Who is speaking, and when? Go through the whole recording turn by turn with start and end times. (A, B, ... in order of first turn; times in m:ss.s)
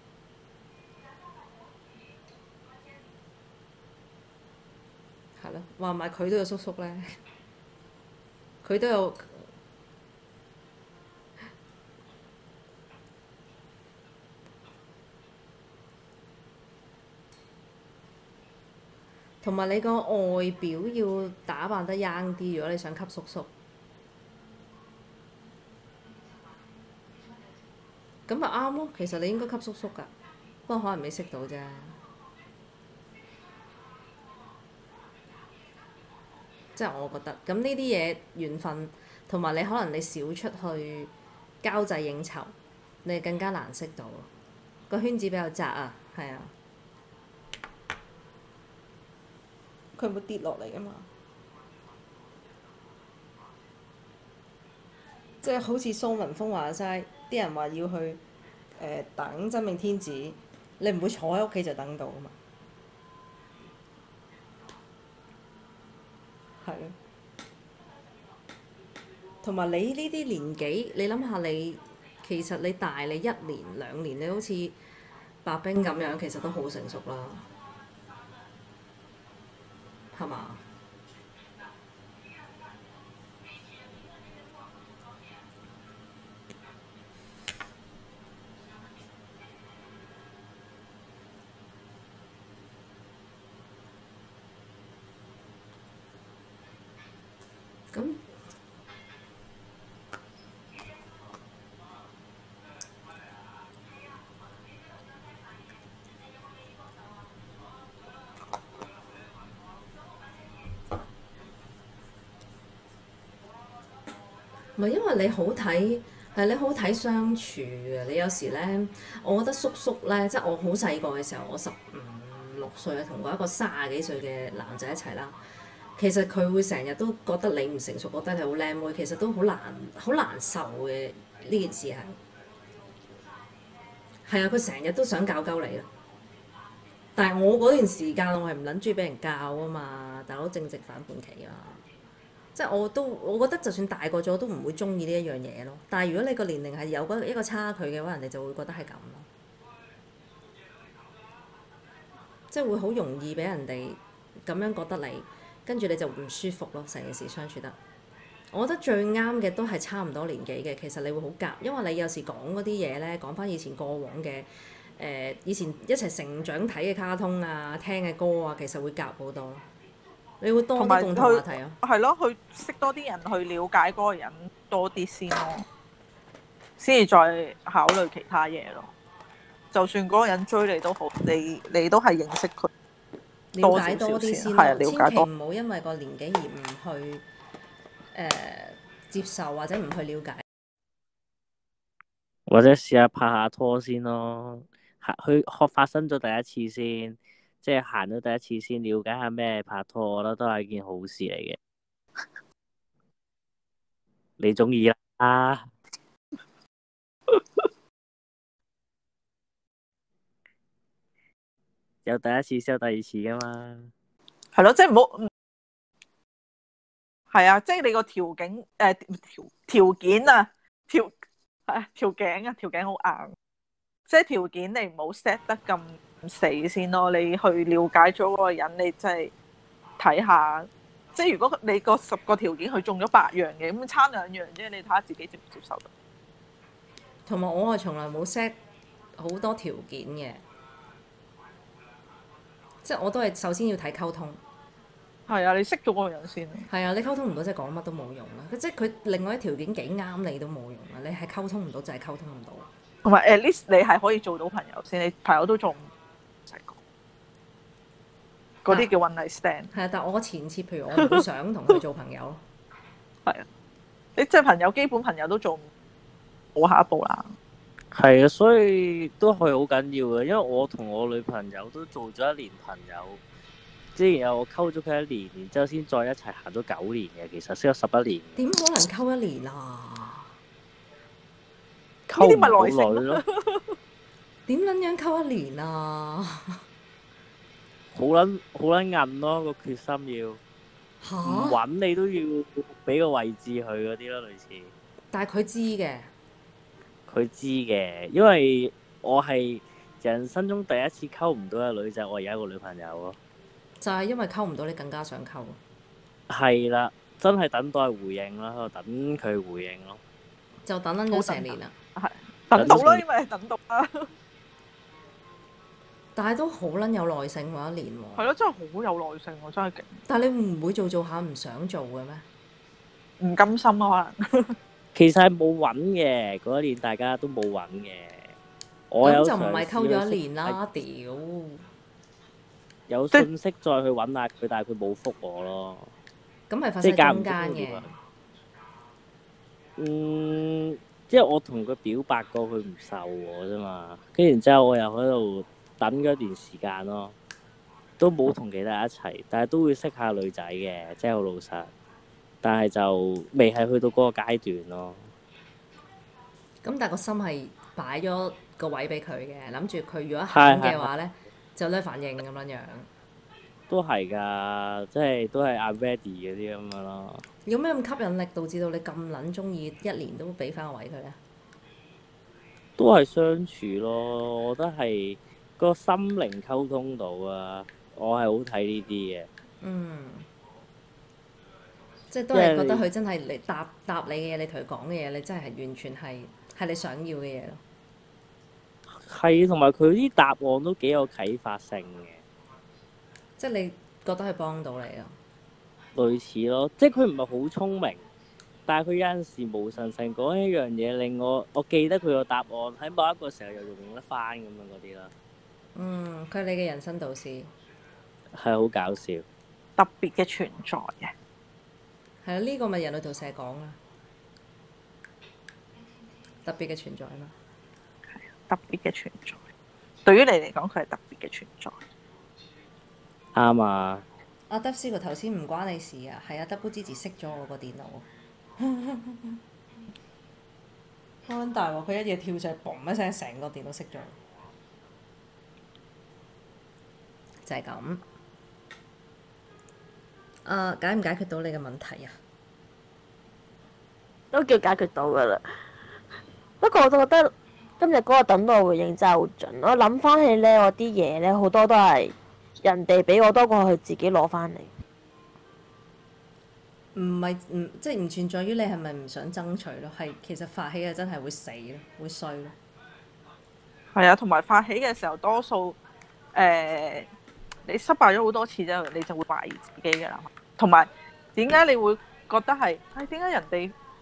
0:05.4-0:07.1 A
0:08.6-0:09.5 A
0:19.4-0:23.5 A
0:28.3-0:30.1 A
0:30.7-0:32.0 A
0:36.8-0:44.3 A
0:44.9-0:46.5 A
0:50.0-0:51.1 A
0:55.4-0:58.2 A
0:58.8-1:02.4 A
1:06.6-1:07.0 A
1:09.4-1:14.8 A
1:15.4-1:17.5 A
1:20.1-1:20.6 A
1:37.9-1:38.2 A
1:54.8-2:05.4 A
2:06.0-2:12.2 A
2:14.2-2:15.9 A
2:17.2-2:21.8 A
2:22.6-2:29.3 A
2:32.5-2:37.8 A
2:38.5-2:49.7 A
2:50.4-2:51.8 A
2:50.8-2:55.7 B
2:56.8-2:58.9 B
2:59.7-3:02.7 B
3:03.5-3:07.2 A
3:03.6-3:05.3 B
3:08.1-3:10.4 A
3:12.5-3:21.6 C
3:24.4-3:25.7 C
3:32.0-3:33.9 C
3:34.5-3:35.3 B
3:37.3-3:41.1 B
3:41.7-3:43.4 B
3:44.1-3:49.3 B
3:50.0-3:55.9 B
3:57.3-3:58.6 A
3:59.2-4:00.4 A
4:02.8-4:04.4 A
4:05.3-4:06.7 B
4:06.7-4:12.7 A
4:13.0-4:15.9 B
4:16.5-4:16.8 B
4:18.6-4:19.7 B
4:19.7-4:22.4 A
4:21.0-4:21.2 B
4:24.2-4:25.7 B
4:26.6-4:27.4 B
4:27.9-4:33.2 C
4:34.0-4:38.4 C
4:38.4-4:40.3 A
4:42.1-4:43.2 C
4:42.1-4:43.7 B
4:44.5-4:46.6 A
4:47.9-4:50.4 C
4:51.0-4:51.6 A
4:51.2-4:54.7 C
4:55.1-4:56.1 A
4:57.1-5:03.2 C
5:03.8-5:05.6 A
5:06.3-5:10.0 C
5:10.6-5:11.7 A
5:11.1-5:14.1 B
5:12.6-5:13.0 C
5:16.2-5:18.3 A
5:18.2-5:20.0 B
5:20.1-5:22.2 A
5:23.2-5:24.6 B
5:25.0-5:28.3 C
5:28.9-5:30.6 C
5:29.0-5:31.6 A
5:32.9-5:35.9 C
5:36.5-5:37.9 A
5:36.8-5:37.9 C
5:39.8-5:47.2 C
5:48.0-5:51.7 C
5:52.4-5:55.1 C
5:56.6-6:02.9 A
6:00.3-6:00.9 C
6:03.7-6:07.2 C
6:07.5-6:11.2 A
6:12.8-6:19.3 C
6:19.6-6:20.3 A
6:22.1-6:27.6 A
6:22.3-6:22.8 C
6:29.0-6:32.2 C
6:33.4-6:35.2 A
6:36.0-6:38.1 C
6:38.7-6:45.1 C
6:45.8-6:47.5 A
6:48.3-6:49.2 C
6:49.8-6:51.1 B
6:52.2-6:53.8 A
6:56.4-6:57.3 A
6:58.1-6:59.4 B
7:00.0-7:01.8 B
7:03.4-7:04.0 C
7:04.5-7:08.1 A
7:08.6-7:09.4 A
7:11.3-7:14.2 A
7:17.4-7:18.0 A
7:20.4-7:22.1 A
7:24.3-7:25.4 D
7:26.6-7:34.7 D
7:37.0-7:42.6 A
7:43.9-7:45.8 B
7:46.3-7:47.1 B
7:47.7-7:53.7 B